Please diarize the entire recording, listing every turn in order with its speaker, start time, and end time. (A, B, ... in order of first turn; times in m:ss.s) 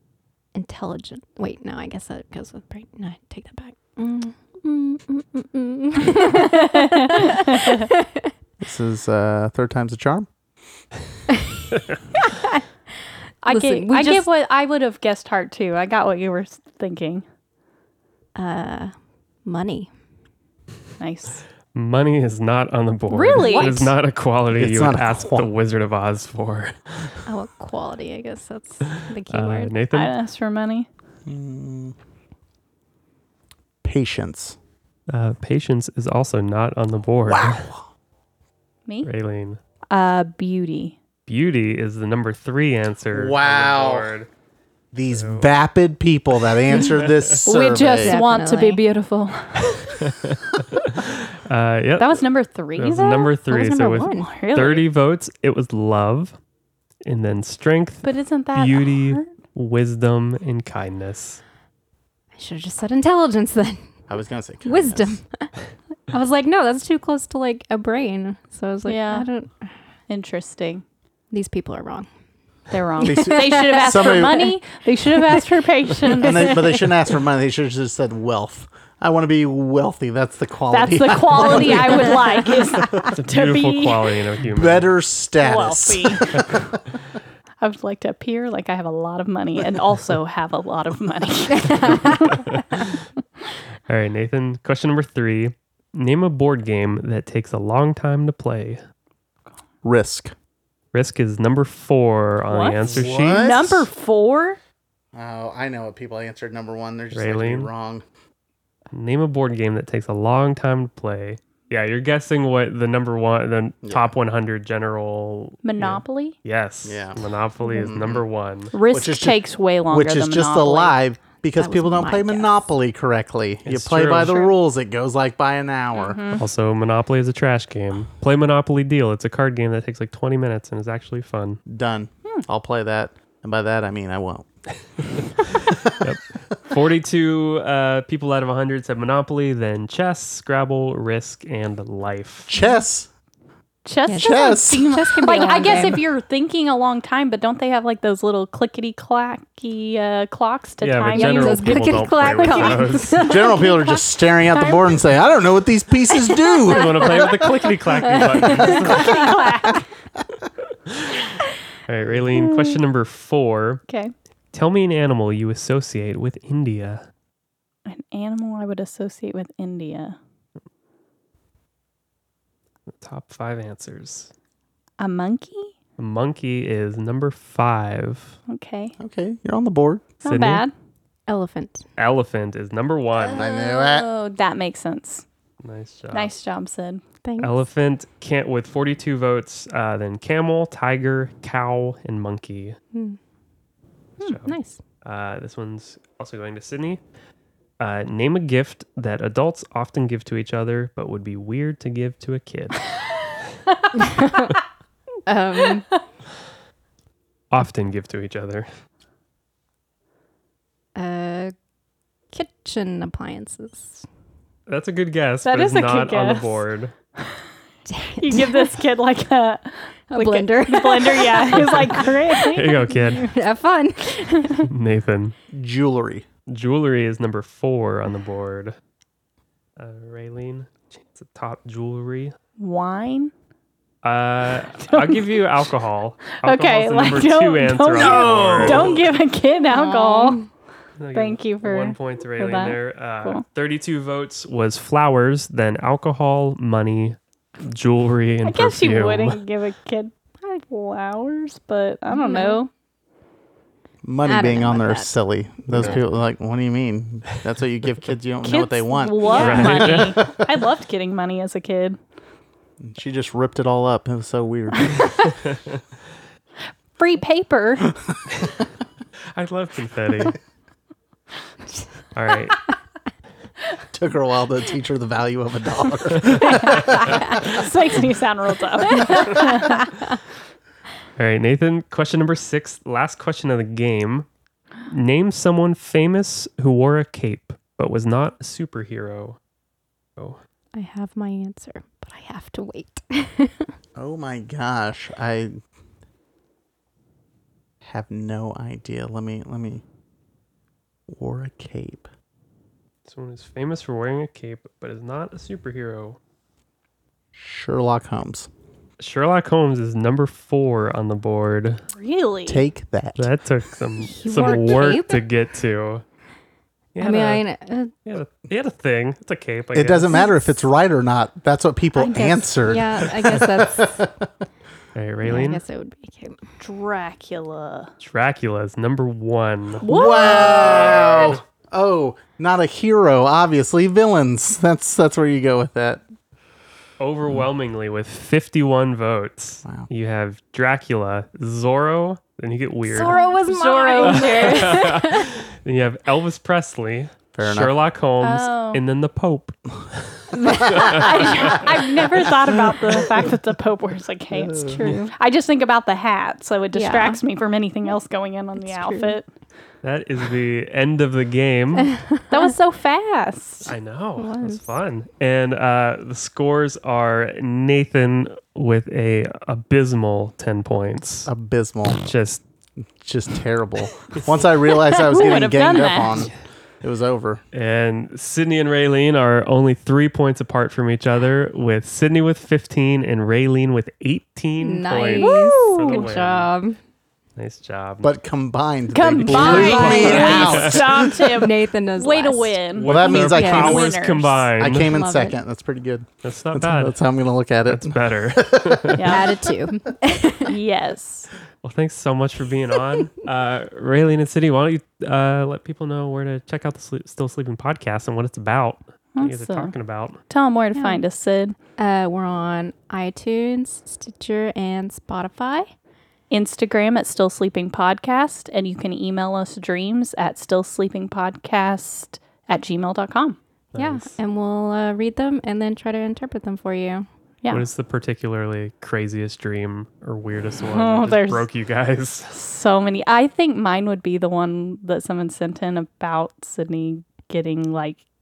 0:00.5-0:08.3 A
0:06.3-0:07.9 B
0:08.6-0:10.3 C
0:12.3-0:12.6 A
0:13.4-0:17.2 B
0:13.4-0:14.3 A
0:18.3-0:18.9 A
0:19.4-0:19.9 A
0:21.0-0:21.4 B
0:21.7-0:27.1 D
0:23.1-0:23.9 B
0:23.4-0:23.7 A
0:24.5-0:25.5 C
0:27.2-0:29.7 A
0:29.3-0:30.1 D
0:29.9-0:30.9 B
0:31.2-0:31.9 C
0:33.8-0:34.6 C
0:35.1-0:37.7 D
0:37.2-0:37.8 C
0:39.0-0:39.6 D
0:39.9-0:41.0 B
0:41.3-0:44.3 D
0:43.1-0:44.1 C
0:44.9-0:48.2 C
0:45.1-0:45.5 D
0:46.8-0:47.4 D
0:47.4-0:50.0 B
0:47.9-0:48.8 A
0:50.0-0:52.2 D
0:52.0-0:53.3 B
0:52.7-0:56.4 D
0:53.5-0:54.3 A
0:54.1-0:54.9 B
0:57.0-1:01.4 D
0:58.0-0:59.3 B
1:02.4-1:03.9 A
1:04.1-1:05.1 C
1:04.6-1:05.5 A
1:06.1-1:09.7 A
1:08.8-1:09.3 B
1:10.1-1:10.8 B
1:11.3-1:12.1 A
1:12.7-1:16.8 B
1:13.0-1:14.2 A
1:13.0-1:14.5 C
1:15.1-1:15.4 A
1:16.2-1:23.1 C
1:16.2-1:16.8 A
1:20.7-1:24.2 B
1:23.1-1:24.9 D
1:24.5-1:26.8 C
1:25.4-1:26.4 B
1:27.6-1:32.4 B
1:31.6-1:32.3 A
1:33.9-1:38.8 D
1:39.8-1:40.3 C
1:40.9-1:43.4 D
1:42.5-1:44.6 B
1:42.8-1:43.9 C
1:45.1-1:48.0 C
1:47.1-1:47.7 D
1:48.9-1:58.7 D
1:53.8-1:54.1 C
1:55.6-1:56.4 B
1:56.8-1:58.2 C
1:58.7-2:01.0 B
1:58.9-2:06.2 C
2:01.5-2:02.6 A
2:03.6-2:04.5 D
2:05.9-2:06.4 B
2:06.4-2:11.6 D
2:11.7-2:14.5 C
2:15.2-2:22.5 D
2:15.6-2:16.0 C
2:22.5-2:23.1 C
2:23.8-2:33.0 B
2:24.1-2:26.0 A
2:24.2-2:24.9 C
2:30.8-2:33.3 D
2:31.1-2:34.9 A
2:33.2-2:37.5 C
2:36.3-2:39.2 A
2:36.7-2:39.3 D
2:38.5-2:39.8 B
2:40.9-2:41.3 D
2:41.8-2:43.8 D
2:43.9-2:44.1 B
2:44.5-2:47.0 D
2:47.8-2:50.2 B
2:52.9-2:54.3 D
2:55.0-2:55.7 B
2:56.0-2:58.4 D
2:58.5-2:58.9 B
2:59.0-3:00.1 C
3:00.2-3:00.6 D
3:00.2-3:00.7 B
3:01.3-3:01.8 A
3:02.0-3:03.4 D
3:03.2-3:05.2 B
3:03.3-3:04.1 C
3:05.6-3:06.3 D
3:06.1-3:07.0 B
3:07.2-3:07.6 A
3:07.4-3:12.8 D
3:12.9-3:13.2 A
3:14.2-3:17.0 D
3:14.4-3:14.8 A
3:17.8-3:22.8 D
3:24.0-3:24.5 A
3:25.2-3:26.0 A
3:27.5-3:28.7 D
3:31.0-3:31.5 A
3:32.3-3:34.0 A
3:34.7-3:36.9 D
3:35.4-3:36.6 B
3:37.9-3:38.8 A
3:38.2-3:43.1 B
3:40.1-3:44.7 A
3:42.5-3:43.3 D
3:44.7-3:45.3 D
3:45.5-3:46.2 C
3:46.5-3:48.8 D
3:49.8-3:52.3 D
3:52.6-3:53.3 B
3:54.0-3:59.0 D
3:54.8-3:55.6 B
3:56.4-4:00.4 B
3:57.9-3:59.1 C
3:59.7-4:00.4 A
4:01.0-4:09.4 D
4:01.1-4:03.4 B
4:08.4-4:12.7 B
4:12.1-4:12.6 A
4:14.0-4:20.2 C
4:14.2-4:15.2 A
4:15.7-4:16.0 D
4:18.4-4:22.0 B
4:19.3-4:20.2 D
4:22.8-4:25.2 C
4:25.1-4:25.8 D
4:27.0-4:27.9 B
4:29.3-4:30.4 D
4:32.1-4:32.6 D
4:33.9-4:37.5 C
4:36.4-4:39.8 B
4:39.0-4:39.8 A
4:41.2-4:44.3 D
4:44.9-4:49.4 D
4:50.7-4:53.7 A
4:54.0-4:55.6 C
4:57.8-4:59.8 C
5:01.1-5:02.1 C
5:03.0-5:06.2 D
5:07.3-5:08.5 C
5:09.0-5:11.8 D
5:12.0-5:12.6 B
5:12.5-5:13.3 C
5:13.2-5:16.0 D
5:14.0-5:15.2 A
5:16.9-5:17.4 D
5:17.0-5:17.9 A
5:18.0-5:20.4 D
5:19.7-5:24.3 C
5:21.9-5:22.6 B
5:22.6-5:24.0 A
5:24.9-5:25.6 D
5:25.2-5:26.4 A
5:26.6-5:27.9 B
5:28.0-5:31.4 D
5:29.8-5:31.1 B
5:29.8-5:36.0 C
5:37.0-5:43.2 D
5:42.9-5:45.3 A
5:43.1-5:44.9 B
5:44.0-5:49.5 D
5:47.3-5:47.8 C
5:48.2-5:48.8 B
5:50.1-5:51.7 D
5:50.4-5:51.0 A
5:50.6-5:59.3 B
5:54.4-5:55.0 C
5:54.6-5:55.1 A
5:56.7-5:57.2 A
5:58.6-5:59.2 A
5:59.8-6:02.0 D
6:02.3-6:03.7 B
6:03.6-6:11.3 D
6:04.2-6:04.7 A
6:11.2-6:12.1 C
6:11.9-6:12.4 D
6:13.0-6:17.4 C
6:14.7-6:16.3 B
6:17.5-6:26.5 D
6:24.6-6:26.8 A
6:25.2-6:26.1 B
6:27.4-6:28.1 D
6:28.0-6:31.2 C
6:28.9-6:34.5 B
6:29.3-6:31.1 D
6:29.3-6:33.8 A
6:32.7-6:34.9 D
6:32.9-6:34.0 C
6:34.6-6:39.2 C
6:34.7-6:35.4 A
6:36.2-6:37.0 D
6:37.6-6:39.1 D
6:38.9-6:39.3 B
6:39.1-6:40.5 A
6:40.4-6:41.3 B
6:41.6-6:50.2 D
6:49.1-6:49.7 B
6:50.3-6:51.6 B
6:50.7-6:51.0 A
6:51.8-6:55.7 A
6:56.3-7:03.4 B
7:03.7-7:04.1 D
7:03.8-7:07.1 A
7:07.5-7:12.4 D
7:10.7-7:11.5 B
7:12.3-7:18.0 B